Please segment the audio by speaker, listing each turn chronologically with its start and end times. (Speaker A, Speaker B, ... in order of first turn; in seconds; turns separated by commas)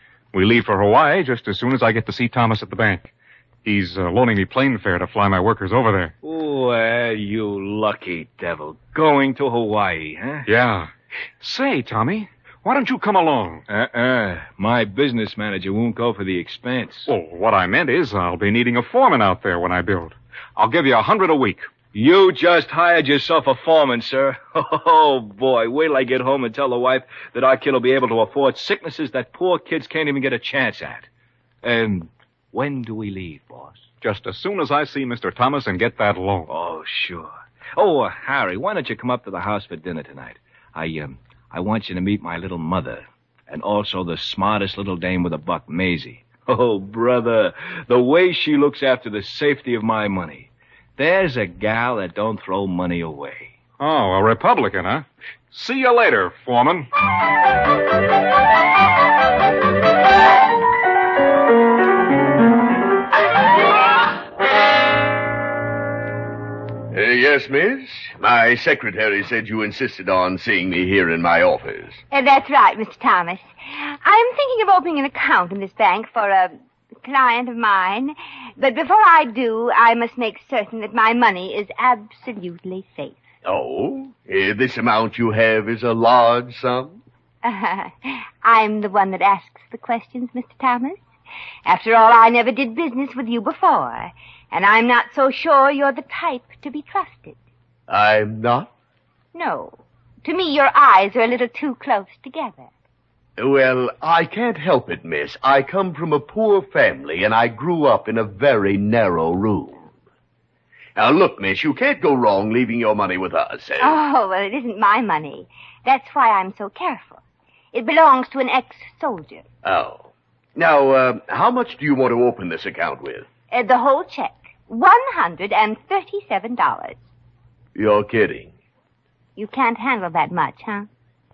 Speaker A: 0.3-3.1, Speaker A: 3.6-6.1, Speaker B: 6.2-10.5, Speaker A: 10.4-10.9, Speaker A: 11.4-13.6, Speaker B: 13.7-17.1, Speaker A: 17.1-21.7, Speaker B: 21.9-31.1, Speaker B: 31.6-33.8, Speaker A: 34.0-36.5, Speaker B: 36.5-53.5, Speaker A: 53.8-56.9, Speaker C: 66.9-72.0, Speaker D: 72.1-83.2, Speaker C: 83.4-87.0, Speaker D: 87.4-91.0, Speaker D: 91.7-97.3, Speaker C: 97.9-98.7, Speaker D: 99.3-102.7, Speaker C: 103.4-109.9, Speaker C: 111.0-114.0, Speaker D: 113.8-117.2, Speaker D: 117.7-119.4, Speaker C: 119.6-123.3, Speaker D: 123.5-127.0, Speaker C: 127.7-128.5, Speaker D: 129.3-130.9